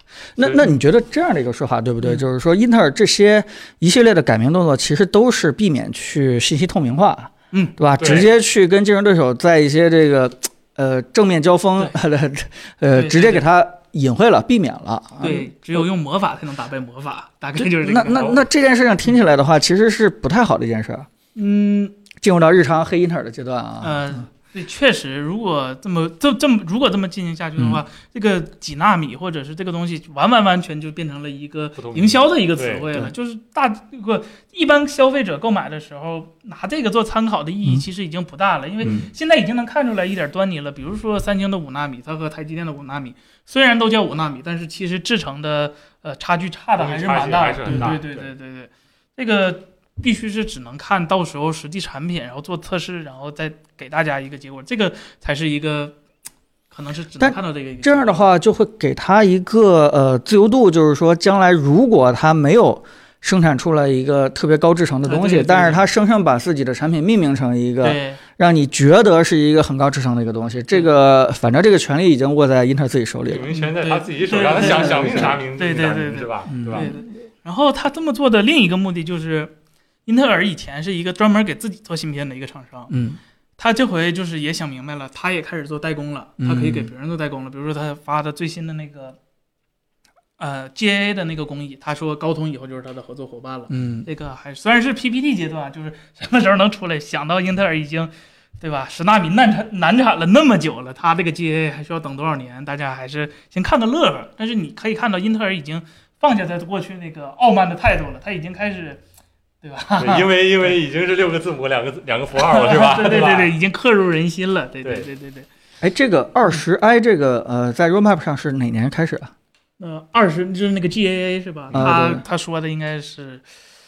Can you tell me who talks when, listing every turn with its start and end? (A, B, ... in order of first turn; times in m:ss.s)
0:00.4-0:15.8 A
0:07.5-0:07.8 B
0:08.0-0:08.3 C
0:12.9-0:13.4 B
0:15.2-0:18.4 B
0:17.6-0:21.1 A
0:21.3-0:22.0 B
0:22.2-0:24.2 A
0:23.8-0:56.0 B
0:27.6-0:27.8 A
0:31.8-0:32.8 C
0:38.8-0:39.1 A
0:46.8-0:48.3 C
0:47.7-0:47.9 A
0:56.7-0:58.3 B
0:57.2-1:13.5 A
1:05.0-1:05.9 B
1:07.8-1:08.2 B
1:13.3-1:16.9 C
1:13.5-1:19.5 B
1:14.5-1:15.4 A
1:16.5-1:17.0 A
1:20.0-1:22.9 B
1:22.9-1:23.2 A
1:23.6-1:29.2 B
1:26.4-1:26.9 A
1:30.4-1:49.0 B
1:33.7-1:34.1 A
1:49.6-1:50.8 B
1:50.0-1:53.5 C
1:52.4-1:55.5 B
1:55.8-1:59.3 A
1:59.8-2:03.4 B
2:01.7-2:02.2 A